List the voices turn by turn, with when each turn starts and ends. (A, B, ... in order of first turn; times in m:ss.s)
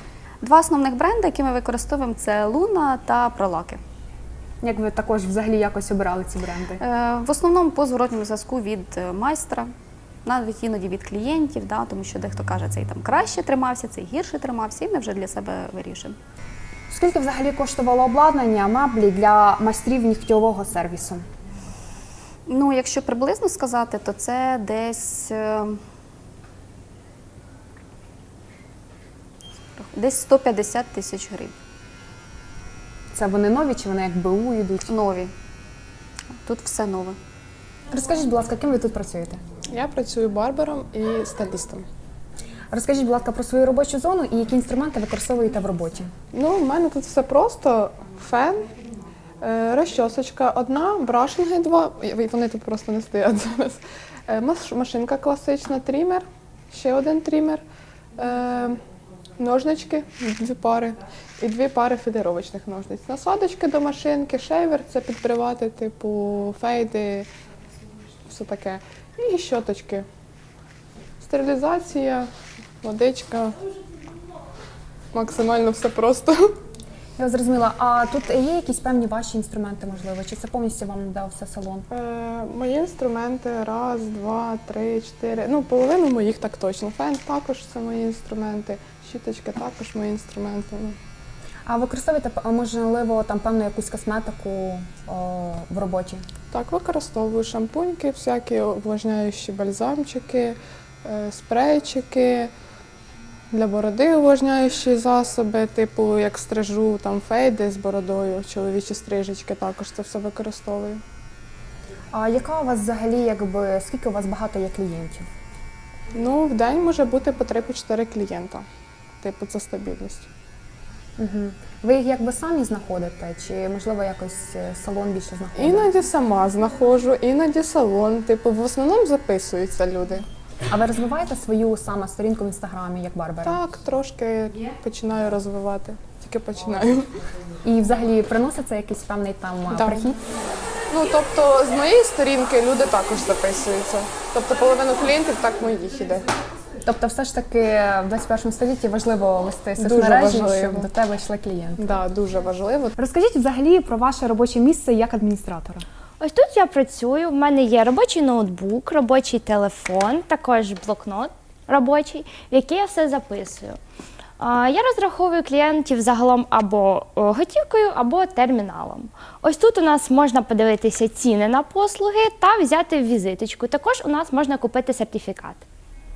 0:00.4-0:03.8 A
0:04.6-0:06.8 B
0:06.8-0:09.7 A
0:10.2-0:16.2 A
0:16.9-0:21.2 B
0:22.5-0:25.8 A
0:29.8-0:31.6 A
0:33.2-0:34.9 B
0:34.9-0:35.3 A
0:36.4-0:37.2 A
0:37.9-0:39.4 B
0:39.7-0:41.9 C
0:42.7-0:46.1 B
0:46.3-0:48.7 C
0:49.4-0:57.6 C
0:58.2-0:58.8 C
0:59.4-1:07.3 C
1:08.3-1:10.1 C
1:11.2-1:12.3 C
1:12.8-1:13.6 C
1:15.1-1:16.5 C
1:17.2-1:21.9 B
1:21.9-1:31.0 C
1:31.7-1:36.3 B
1:36.5-1:42.5 C
1:43.5-1:51.0 C
1:52.1-1:55.3 B
1:56.1-1:58.6 C
1:59.2-2:00.3 C
2:01.2-2:05.9 B
2:05.6-2:10.2 C
2:10.7-2:13.6 B
2:13.4-2:17.1 C
2:17.6-2:20.2 B
2:19.7-2:20.1 C
2:20.9-2:26.3 C
2:26.8-2:31.9 B
2:29.8-2:30.9 C
2:31.8-2:33.0 C
2:33.0-2:35.8 B
2:36.2-2:43.8 D
2:44.4-2:55.6 D